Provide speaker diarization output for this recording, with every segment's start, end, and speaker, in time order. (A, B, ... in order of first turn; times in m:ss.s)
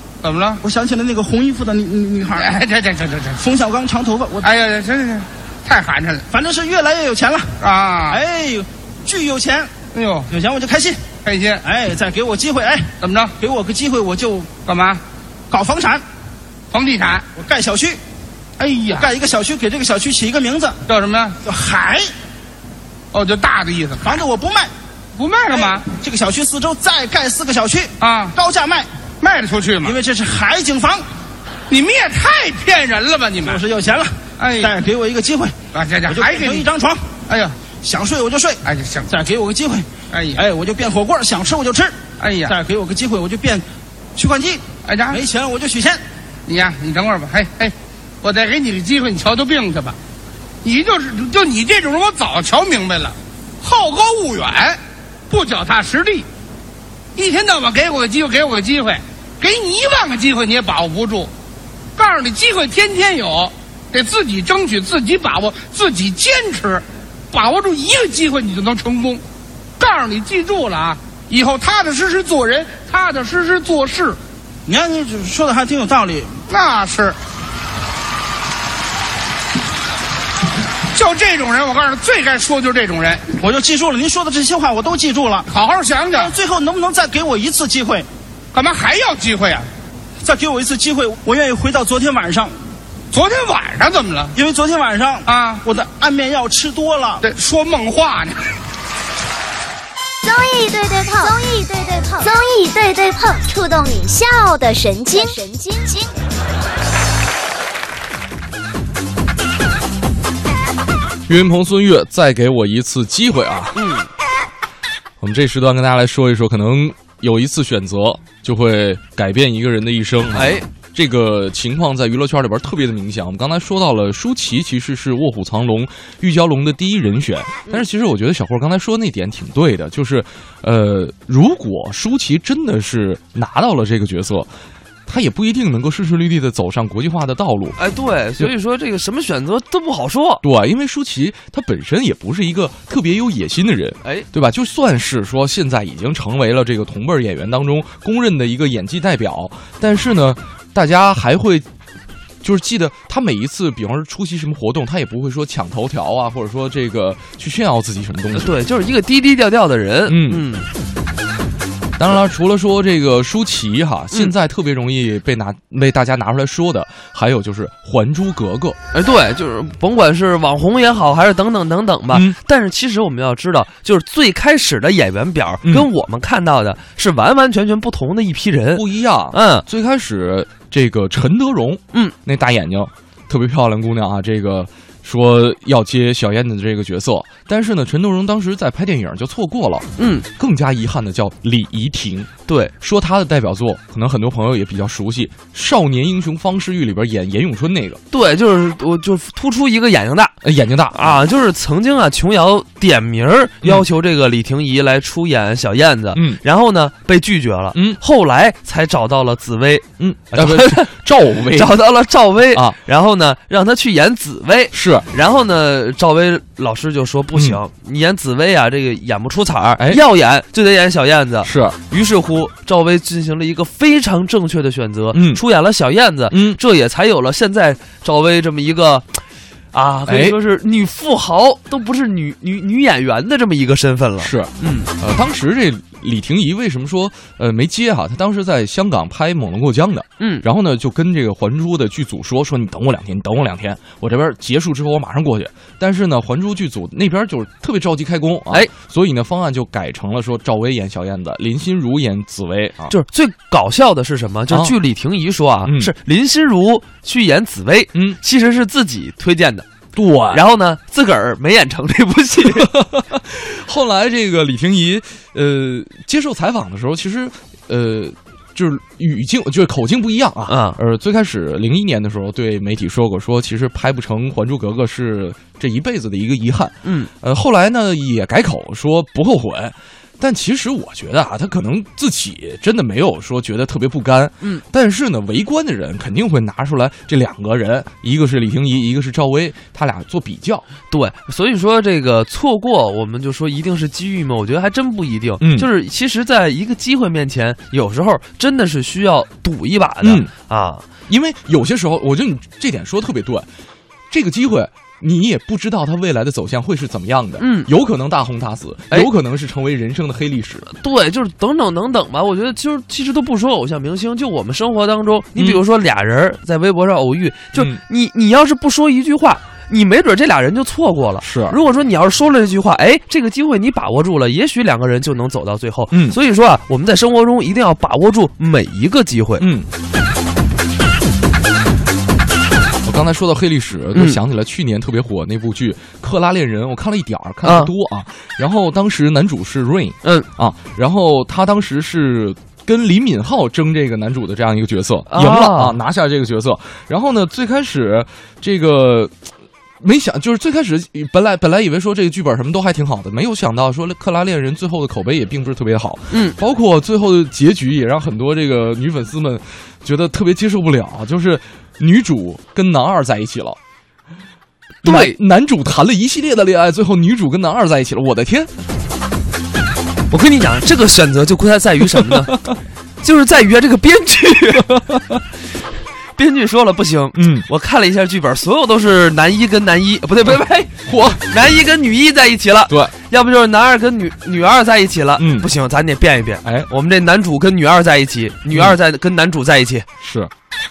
0:00.2-0:00.6 A
0:00.6-0:02.5 B
0:02.2-0:03.4 A
0:03.4-0:04.5 B
0:04.4-0:06.2 A
0:06.3-0:07.5 B
0:07.6-0:08.2 A
0:08.1-0:09.7 B
0:09.9-0:10.3 A
0:10.3-0:11.0 B
0:11.2-0:11.6 A
0:11.6-0:14.5 B
0:13.0-0:13.3 A
0:14.6-0:15.0 A
0:15.5-0:16.0 B
0:16.7-0:17.2 A
0:17.4-0:18.0 B
0:18.6-0:19.1 A
0:18.9-0:20.8 B
0:20.8-0:21.4 A
0:21.4-0:22.1 B
0:23.1-0:24.2 A
0:24.0-0:24.7 B
0:25.1-0:25.8 A
0:25.5-0:28.9 B
0:28.0-0:28.3 A
0:29.2-0:30.0 A
0:29.8-0:31.0 B
0:31.7-0:33.6 A
0:33.4-0:35.5 B
0:34.4-0:34.7 A
0:35.7-0:36.7 A
0:36.0-0:37.0 B
0:37.3-0:37.6 A
0:37.8-0:46.0 B
0:38.6-0:39.1 A
0:40.1-0:40.4 A
0:42.2-0:42.5 A
0:44.8-0:45.2 A
0:46.5-0:50.0 A
0:50.6-0:54.8 A
0:55.3-0:56.3 A
0:57.2-1:01.3 A
1:02.0-1:09.2 A
1:09.8-1:14.2 A
1:14.6-1:16.4 B
1:16.5-1:17.2 A
1:20.9-1:23.2 A
1:23.4-1:25.5 B
1:25.5-1:26.3 A
1:26.1-1:28.1 B
1:28.5-1:29.7 A
1:30.2-1:32.6 B
1:33.1-1:34.3 A
1:34.3-1:37.2 B
1:35.3-1:35.6 A
1:37.2-1:38.5 A
1:40.2-1:46.1 C
1:51.3-1:53.8 D
1:53.7-1:54.1 E
1:55.2-2:14.5 D
2:00.3-2:00.7 E
2:15.1-2:17.8 D
2:17.8-2:20.4 E
2:20.4-2:31.6 D
2:32.4-2:38.5 D
2:38.3-2:40.7 E
2:40.0-2:40.4 D
2:42.0-2:48.8 D
2:48.9-2:59.6 E
2:52.1-2:52.4 D
2:55.6-2:55.9 D
2:58.7-3:18.0 D
3:10.0-3:10.3 E
3:12.5-3:12.7 E
3:18.1-3:20.4 E
3:20.4-3:21.2 D
3:20.9-3:49.2 E
3:26.1-3:26.4 D
3:27.7-3:28.0 D
3:30.0-3:31.8 D
3:32.5-3:32.8 D
3:34.7-3:35.1 D
3:37.3-3:37.6 D
3:39.8-3:40.0 D
3:41.4-3:41.8 D
3:45.1-3:45.4 D
3:46.3-3:46.6 D
3:49.7-3:54.9 E
3:50.0-3:50.4 D
3:54.2-4:12.9 D
4:00.2-4:00.4 E
4:12.9-4:19.7 E
4:14.5-4:14.8 D
4:15.6-4:15.9 D
4:17.9-4:18.2 D
4:19.9-4:20.4 D
4:20.3-4:22.8 E
4:22.6-4:50.6 D
4:30.5-4:30.8 E
4:36.8-4:37.1 E
4:50.9-5:00.8 E
4:55.4-4:55.7 D
5:00.0-5:00.3 D
5:01.1-5:03.4 D
5:04.1-5:10.7 D
5:07.4-5:07.7 E
5:10.7-5:29.4 E
5:15.3-5:15.6 D
5:17.5-5:17.8 D
5:21.2-5:21.6 D
5:25.9-5:26.2 D
5:29.4-5:29.7 D
5:32.8-5:49.1 D
5:33.9-5:34.2 E
5:37.4-5:37.7 E
5:45.1-5:45.8 E
5:49.8-6:03.6 D
5:56.1-5:56.4 E
6:04.8-6:08.5 D
6:04.8-6:05.2 E
6:10.1-6:12.4 E
6:12.0-6:12.5 D
6:13.0-6:15.2 E
6:16.1-6:29.8 E
6:17.1-6:17.5 D
6:20.8-6:21.3 D
6:22.7-6:22.9 D
6:25.2-6:25.5 D
6:26.4-6:26.7 D
6:28.5-6:28.8 D
6:30.0-6:30.3 D